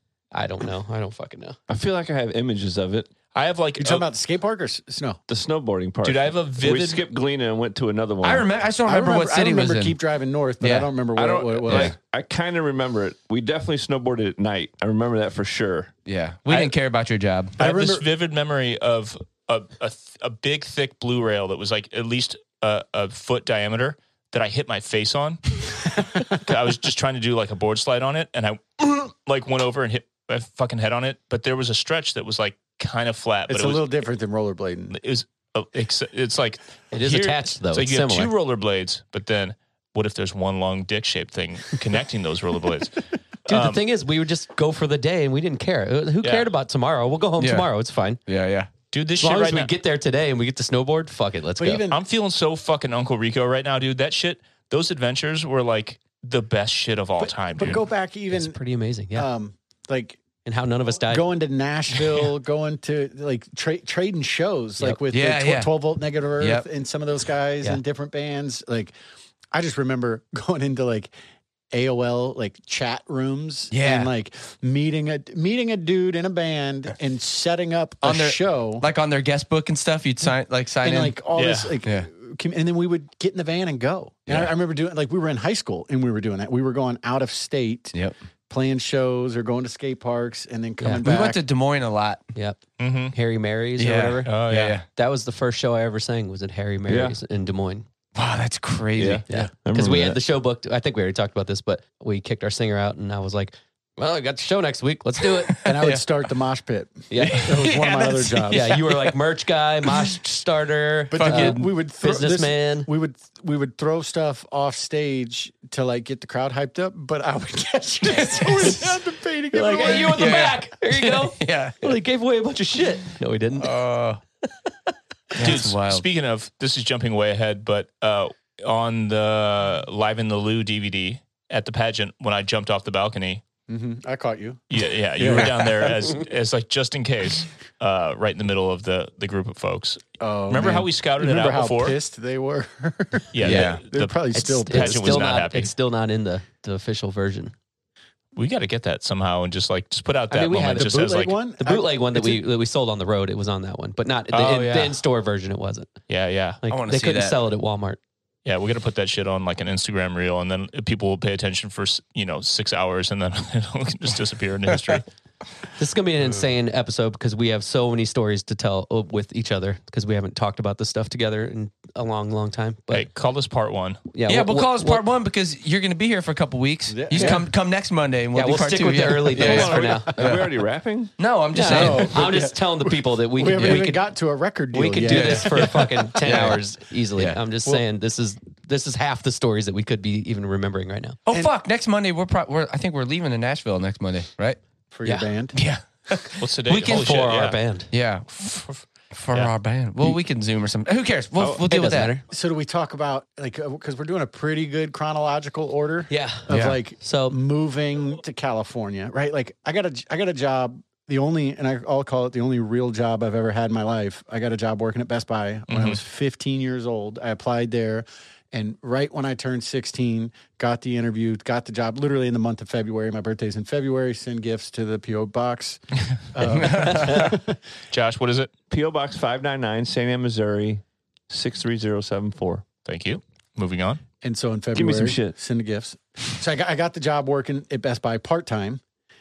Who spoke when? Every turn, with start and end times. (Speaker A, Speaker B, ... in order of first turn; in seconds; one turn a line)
Speaker A: 0.3-1.6
Speaker B: 1.7-3.1
Speaker C: 3.3-4.1
Speaker D: 3.8-5.2
Speaker B: 5.3-8.5
Speaker C: 6.0-7.0
Speaker E: 8.2-10.0
Speaker D: 8.9-11.9
Speaker E: 10.6-10.9
Speaker B: 11.2-15.9
Speaker E: 11.7-11.9
Speaker E: 16.1-17.6
Speaker C: 16.5-16.7
Speaker D: 17.6-18.1
Speaker C: 17.6-33.9
Speaker D: 33.5-35.0
Speaker C: 34.9-43.8
Speaker A: 36.9-38.3
Speaker A: 43.5-48.2
Speaker C: 46.2-46.5
Speaker E: 47.4-47.7
Speaker E: 48.3-48.7
Speaker C: 48.9-49.7
Speaker A: 49.2-51.8
Speaker D: 51.6-52.0
Speaker C: 51.9-57.8
Speaker D: 57.2-58.6
Speaker A: 58.3-59.3
Speaker D: 59.1-60.2
Speaker A: 60.5-61.2
Speaker D: 61.1-68.9
Speaker E: 65.1-65.7
Speaker E: 66.4-66.7
Speaker D: 69.5-71.1
Speaker D: 71.7-78.9
Speaker E: 73.7-74.1
Speaker E: 78.0-81.2
Speaker D: 80.8-88.0
Speaker C: 81.3-81.8
Speaker D: 88.5-91.4
Speaker E: 91.0-92.2
Speaker A: 92.3-92.6
Speaker C: 92.8-93.2
Speaker A: 93.1-94.3
Speaker E: 93.8-94.8
Speaker C: 94.2-94.8
Speaker A: 94.9-97.9
Speaker B: 96.9-97.2
Speaker E: 98.2-99.2
Speaker B: 99.0-100.2
Speaker A: 99.3-105.7
Speaker D: 105.6-108.8
Speaker A: 107.1-107.5
Speaker E: 107.2-109.2
Speaker A: 108.5-112.9
Speaker D: 111.1-120.3
Speaker E: 111.1-111.7
Speaker E: 118.1-118.9
Speaker A: 119.5-123.8
Speaker E: 119.8-122.0
Speaker E: 123.6-124.2
Speaker E: 125.3-126.0
Speaker C: 125.4-133.4
Speaker D: 133.7-135.9
Speaker C: 134.7-142.0
Speaker D: 140.2-145.3
Speaker C: 143.3-145.7
Speaker E: 143.4-143.8
Speaker A: 144.3-147.5
Speaker C: 148.3-151.4
Speaker A: 150.3-156.0
Speaker D: 150.6-152.4
Speaker C: 154.3-155.0
Speaker C: 156.1-156.6
Speaker A: 156.6-158.0
Speaker E: 156.7-157.4
Speaker C: 158.4-165.0
Speaker A: 165.8-173.1
Speaker C: 172.9-174.0
Speaker A: 174.1-175.0
Speaker E: 174.3-180.5
Speaker D: 176.9-177.5
Speaker A: 177.1-177.4
Speaker A: 178.3-180.1
Speaker B: 179.3-181.1
Speaker E: 181.2-182.2
Speaker A: 181.5-184.0
Speaker D: 181.7-186.5
Speaker E: 183.6-183.9
Speaker A: 184.7-191.2
Speaker E: 185.1-186.6
Speaker E: 191.3-194.6
Speaker D: 194.9-195.6
Speaker E: 195.5-197.2
Speaker C: 196.4-197.6
Speaker A: 196.8-197.9
Speaker E: 197.9-202.1
Speaker C: 198.4-199.5
Speaker B: 201.4-201.7
Speaker A: 201.7-202.2
Speaker D: 202.3-227.6
Speaker A: 206.1-206.5
Speaker E: 206.5-206.8
Speaker A: 207.0-207.4
Speaker C: 215.7-216.0
Speaker E: 226.5-227.3
Speaker C: 227.9-228.5
Speaker B: 228.7-232.7
Speaker C: 232.8-234.0
Speaker D: 234.2-238.8
Speaker B: 234.7-235.3